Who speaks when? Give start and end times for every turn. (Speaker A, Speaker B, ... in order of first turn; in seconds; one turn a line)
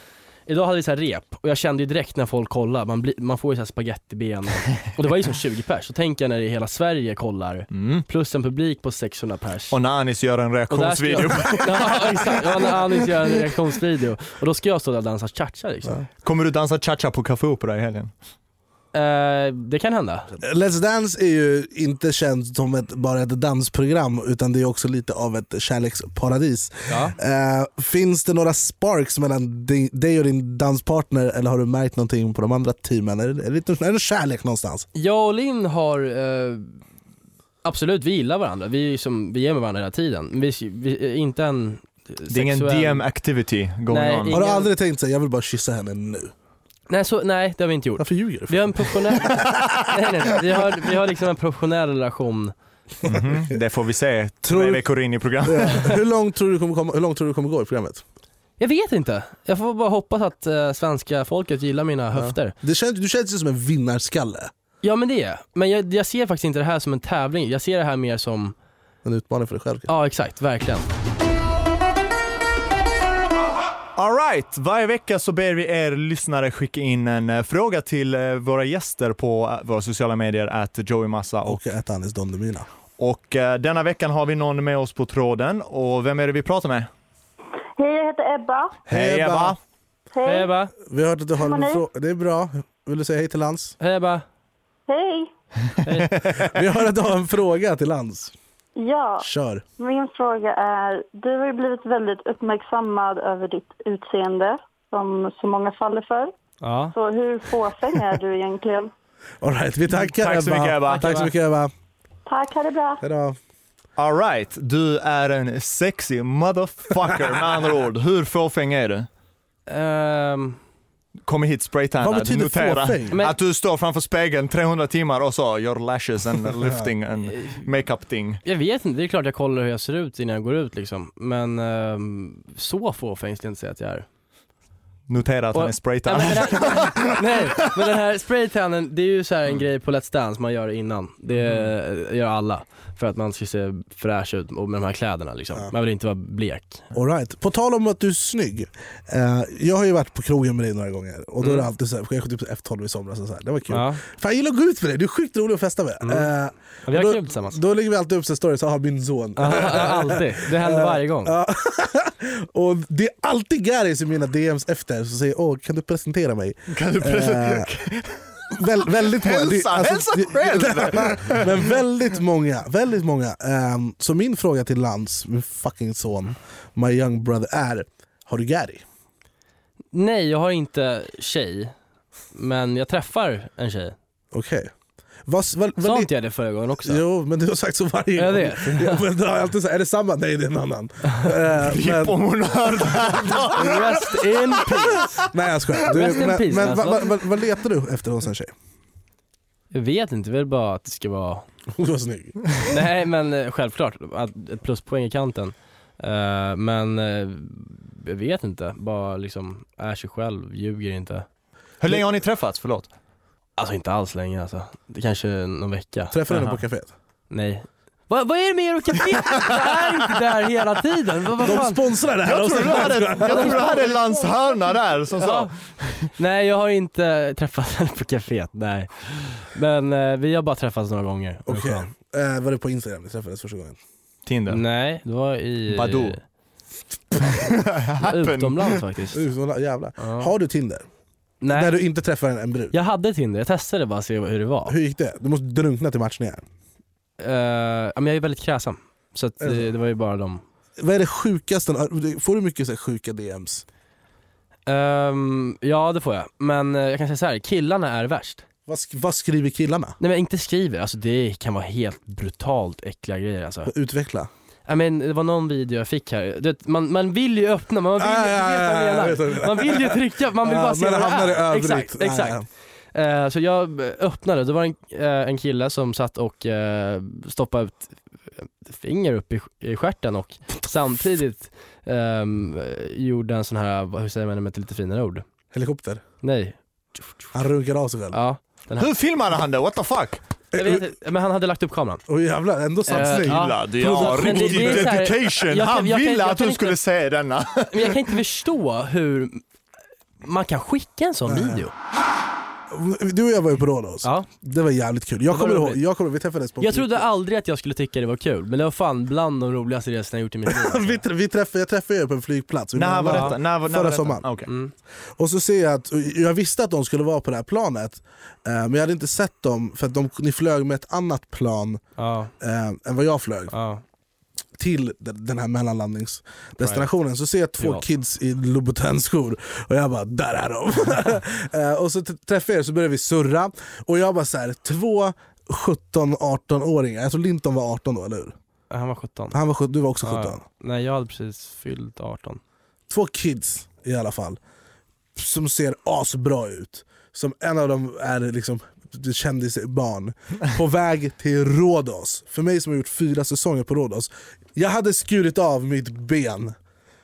Speaker A: 0.5-9.8
Speaker B: 7.7-8.1
Speaker B: 9.7-12.3
Speaker A: 10.7-16.0
Speaker B: 16.2-18.1
Speaker A: 18.9-20.3
Speaker C: 20.4-34.9
Speaker A: 26.9-27.1
Speaker A: 34.9-36.8
Speaker A: 37.6-43.0
Speaker B: 42.3-44.4
Speaker A: 43.9-44.7
Speaker C: 44.3-46.3
Speaker A: 46.9-52.5
Speaker C: 48.0-49.2
Speaker B: 53.0-56.0
Speaker C: 54.4-54.9
Speaker C: 55.4-58.0
Speaker A: 58.6-62.5
Speaker C: 62.1-64.5
Speaker A: 64.8-68.5
Speaker C: 69.0-69.9
Speaker A: 69.9-70.9
Speaker B: 74.0-81.6
Speaker C: 81.4-82.7
Speaker B: 83.0-86.9
Speaker D: 87.8-88.8
Speaker C: 88.9-89.6
Speaker B: 88.9-89.6
Speaker D: 90.1-90.5
Speaker A: 90.2-90.7
Speaker C: 90.9-93.8
Speaker D: 91.4-91.8
Speaker A: 93.8-94.2
Speaker D: 94.9-95.3
Speaker A: 95.8-96.1
Speaker B: 96.2-96.5
Speaker C: 96.4-98.3
Speaker D: 98.8-99.3
Speaker C: 99.2-99.6
Speaker D: 99.8-106.3
Speaker A: 106.6-106.9
Speaker D: 106.9-108.9
Speaker C: 109.4-111.7
Speaker B: 110.1-111.3
Speaker A: 110.9-111.3
Speaker D: 112.3-113.0
Speaker C: 113.0-113.4
Speaker B: 114.0-119.1
Speaker A: 119.7-120.6
Speaker B: 121.2-128.4
Speaker C: 122.0-123.2
Speaker A: 127.3-127.6
Speaker A: 128.4-134.1
Speaker B: 135.1-137.6
Speaker A: 135.5-146.8
Speaker B: 141.4-141.7
Speaker C: 146.9-167.7
Speaker A: 153.7-154.0
Speaker A: 156.0-156.3
Speaker A: 156.9-157.6
Speaker A: 159.4-161.3
Speaker B: 166.7-171.7
Speaker C: 168.5-178.8
Speaker A: 179.9-181.7
Speaker A: 182.3-183.9
Speaker C: 184.3-184.7
Speaker C: 185.3-186.1
Speaker A: 185.8-187.0
Speaker C: 186.8-192.2
Speaker A: 188.2-189.0
Speaker B: 191.6-194.5
Speaker C: 192.8-193.5
Speaker A: 193.5-195.1
Speaker C: 195.2-198.5
Speaker A: 195.9-197.1
Speaker A: 199.7-201.4
Speaker C: 201.7-202.5
Speaker A: 202.7-211.2
Speaker B: 211.8-212.9
Speaker A: 213.6-216.2
Speaker C: 216.1-216.9
Speaker A: 217.3-221.8
Speaker C: 221.4-223.9
Speaker B: 222.2-226.1
Speaker A: 223.2-223.8
Speaker A: 225.2-225.5
Speaker A: 226.2-231.9
Speaker C: 231.5-233.8
Speaker B: 234.2-234.6
Speaker A: 234.5-236.2
Speaker B: 235.7-236.2
Speaker B: 237.2-238.8
Speaker A: 238.0-239.2
Speaker C: 239.1-240.9
Speaker A: 240.0-240.3
Speaker A: 241.4-241.7
Speaker C: 241.5-242.8
Speaker A: 242.7-244.7
Speaker C: 244.7-246.4
Speaker A: 247.2-250.4
Speaker C: 249.4-249.7
Speaker C: 250.8-253.6
Speaker A: 254.7-258.4
Speaker C: 258.7-259.9
Speaker A: 260.0-263.7
Speaker C: 263.7-264.3
Speaker A: 264.7-272.4
Speaker C: 268.0-272.4
Speaker A: 272.9-285.2
Speaker C: 285.5-286.0
Speaker A: 286.2-286.6
Speaker C: 287.3-288.2
Speaker A: 288.1-288.9
Speaker B: 288.8-290.2
Speaker C: 290.5-290.9
Speaker A: 290.5-292.0
Speaker C: 292.1-294.9
Speaker A: 292.9-296.8
Speaker B: 292.9-298.0
Speaker A: 297.7-299.4
Speaker A: 300.2-301.7
Speaker C: 301.3-301.6
Speaker C: 302.7-307.0
Speaker A: 305.3-305.8
Speaker A: 306.6-311.0
Speaker C: 310.5-314.3
Speaker B: 312.8-314.5
Speaker A: 313.1-313.3
Speaker A: 314.5-314.7
Speaker C: 315.2-321.8
Speaker A: 322.0-322.3
Speaker C: 322.4-323.5
Speaker A: 323.5-323.8
Speaker C: 324.6-338.4
Speaker A: 338.7-339.4
Speaker C: 339.3-340.4
Speaker A: 340.0-342.4
Speaker C: 342.9-344.4
Speaker C: 345.1-356.5